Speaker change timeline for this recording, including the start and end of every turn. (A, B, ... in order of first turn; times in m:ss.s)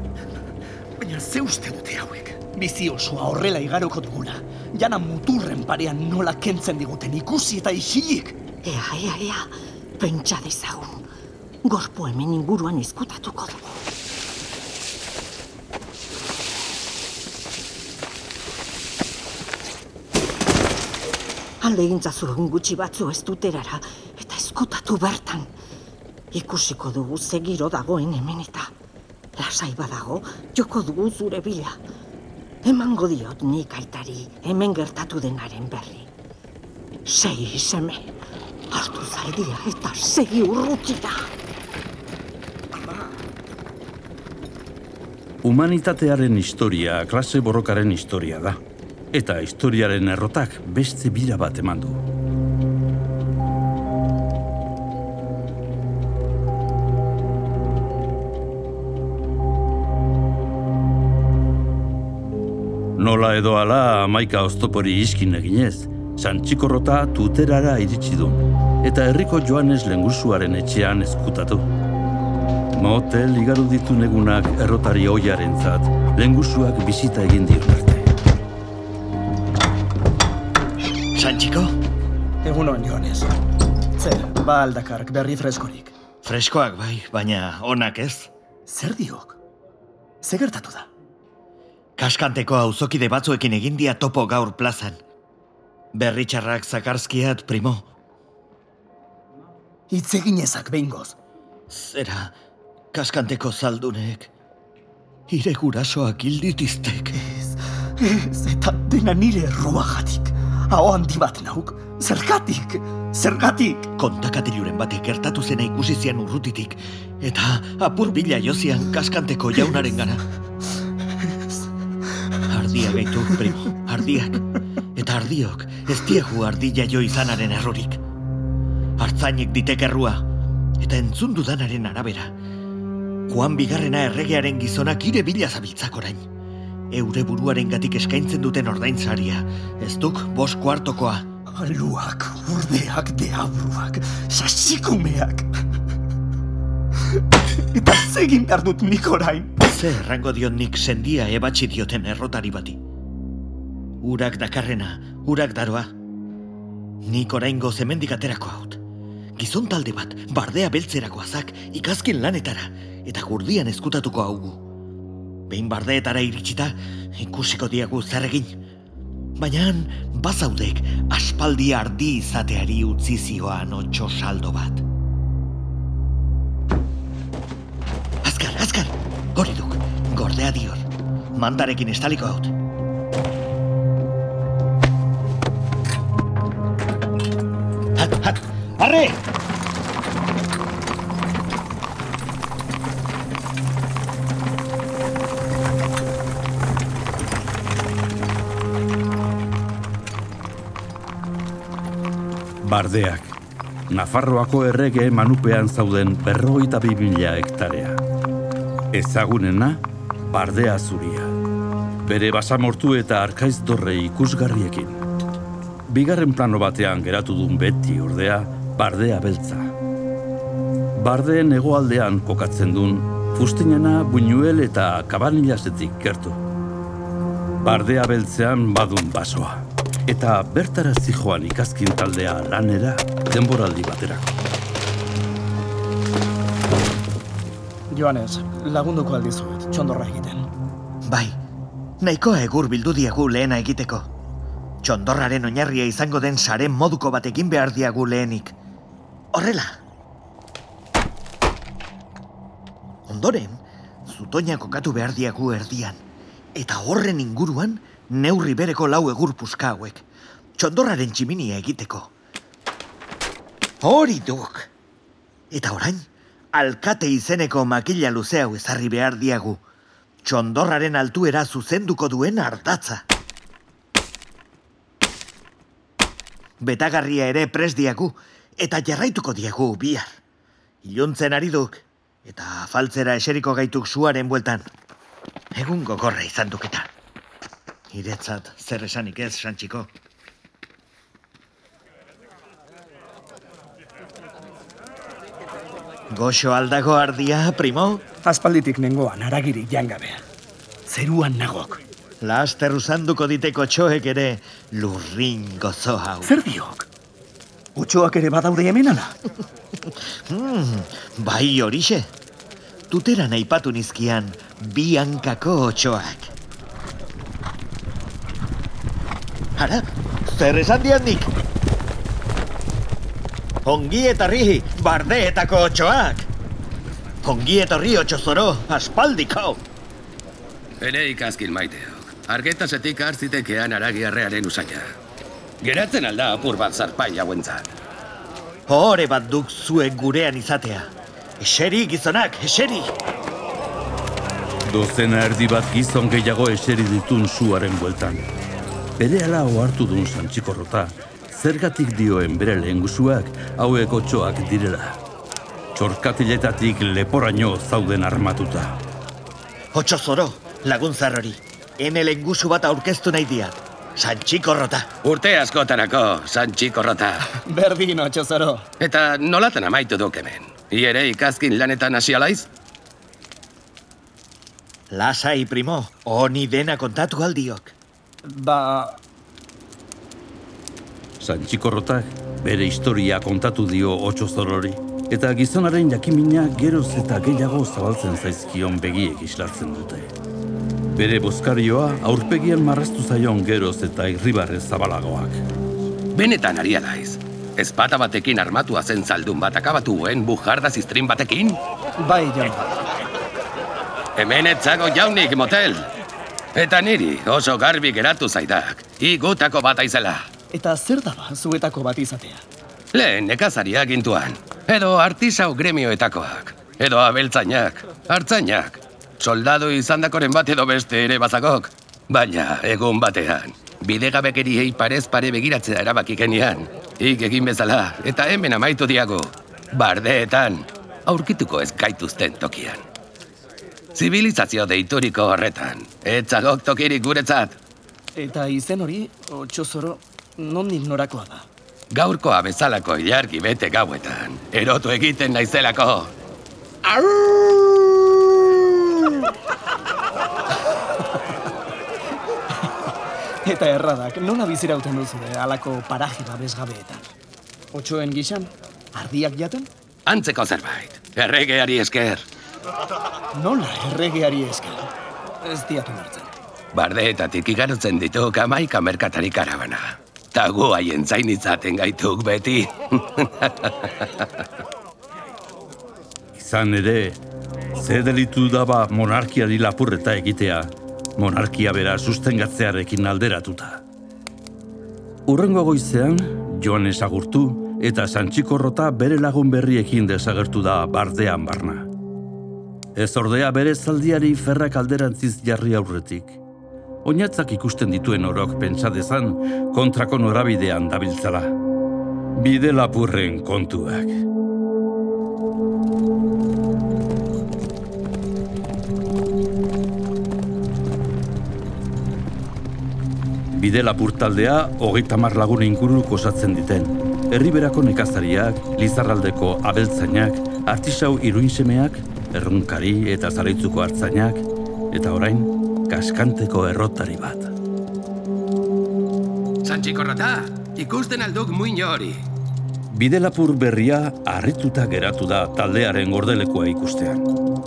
0:01.0-0:08.4 A
0:08.6-0:11.1 B
0:11.6-0:13.8 B
0:21.6-0:25.5 B
0:26.3-0:28.7 B
0:29.4-0:31.8 B
0:32.6-0:36.1 B
0:37.0-0:38.1 B
0:38.7-0:41.3 B
0:45.4-0:48.6 C
0:49.1-0:52.0 C
1:03.0-1:11.7 C
1:12.7-1:18.1 C
1:21.1-1:21.8 D
1:22.4-1:23.4 A
1:24.0-1:25.9 A
1:26.2-1:28.3 D
1:28.7-1:29.4 A
1:30.2-1:30.9 A
1:32.0-1:35.0 D
1:35.9-1:37.9 D
1:39.9-1:41.2 A
1:41.7-1:42.4 D
1:42.9-1:44.3 D
1:45.3-1:47.2 D
1:47.2-1:53.9 A
1:54.0-2:00.2 D
2:02.5-2:04.4 D
2:05.0-2:08.0 D
2:09.0-2:10.3 D
2:10.8-2:12.3 D
2:13.3-2:16.2 D
2:16.9-2:21.3 D
2:21.5-2:25.6 A
2:27.7-2:29.5 A
2:29.6-2:32.8 D
2:34.0-2:35.9 D
2:37.0-2:38.8 D
2:39.4-2:44.6 D
2:45.5-2:48.5 D
2:49.4-2:54.8 D
2:58.2-3:00.8 D
3:01.4-3:02.5 D
3:08.0-3:09.2 D
3:22.6-3:23.4 C
3:23.9-3:28.0 C
3:28.9-3:31.3 C
3:32.0-3:35.0 C
3:35.9-3:39.7 C
3:41.0-3:46.4 C
3:47.6-3:54.4 C
3:57.9-4:00.5 A
4:01.0-4:01.4 D
4:02.0-4:04.1 D
4:04.8-4:08.6 D
4:09.3-4:09.8 D
4:13.1-4:16.0 D
4:16.5-4:20.0 D
4:20.6-4:22.1 D
4:23.8-4:24.7 D
4:25.5-4:29.6 D
4:30.2-4:33.0 D
4:36.6-4:40.1 D
4:40.8-4:44.7 D
4:45.5-4:46.9 D
4:47.9-4:49.9 D
4:56.1-4:58.0 D
4:58.2-5:00.2 A
5:00.9-5:01.8 A
5:02.2-5:06.3 D
5:06.2-5:06.9 A
5:07.8-5:09.2 A
5:10.3-5:12.1 D
5:12.9-5:16.3 D
5:19.6-5:21.3 D
5:23.6-5:26.3 D
5:27.2-5:29.6 D
5:30.8-5:34.9 E
5:35.6-5:37.7 E
5:38.7-5:42.9 D
5:44.7-5:48.2 C
5:49.0-5:55.0 C
5:55.8-5:58.8 C
5:59.7-6:04.9 D
6:05.0-6:07.3 E
6:07.4-6:08.7 A
6:08.8-6:12.5 E
6:14.9-6:17.8 D
6:18.2-6:19.0 A
6:21.2-6:30.1 C
6:30.9-6:35.4 C
6:36.1-6:41.6 E
6:42.0-6:42.6 A
6:44.2-6:45.9 E
6:46.5-6:50.3 E
6:50.5-6:52.4 A
6:52.9-7:12.9 E
7:14.0-7:17.6 E
7:18.1-7:21.5 A
7:21.9-7:26.1 E
7:33.4-7:37.1 A
7:37.7-7:39.7 A
7:40.1-7:42.2 E
7:43.3-7:44.9 A
7:45.4-7:46.3 A
7:46.7-7:54.3 E
7:56.4-7:57.2 C
7:57.8-8:03.8 C
8:05.3-8:11.9 C
8:13.0-8:16.4 C
8:17.0-8:21.5 C
8:22.4-8:24.2 C
8:33.5-8:47.5 C
8:49.6-8:52.2 E
8:52.9-8:57.3 C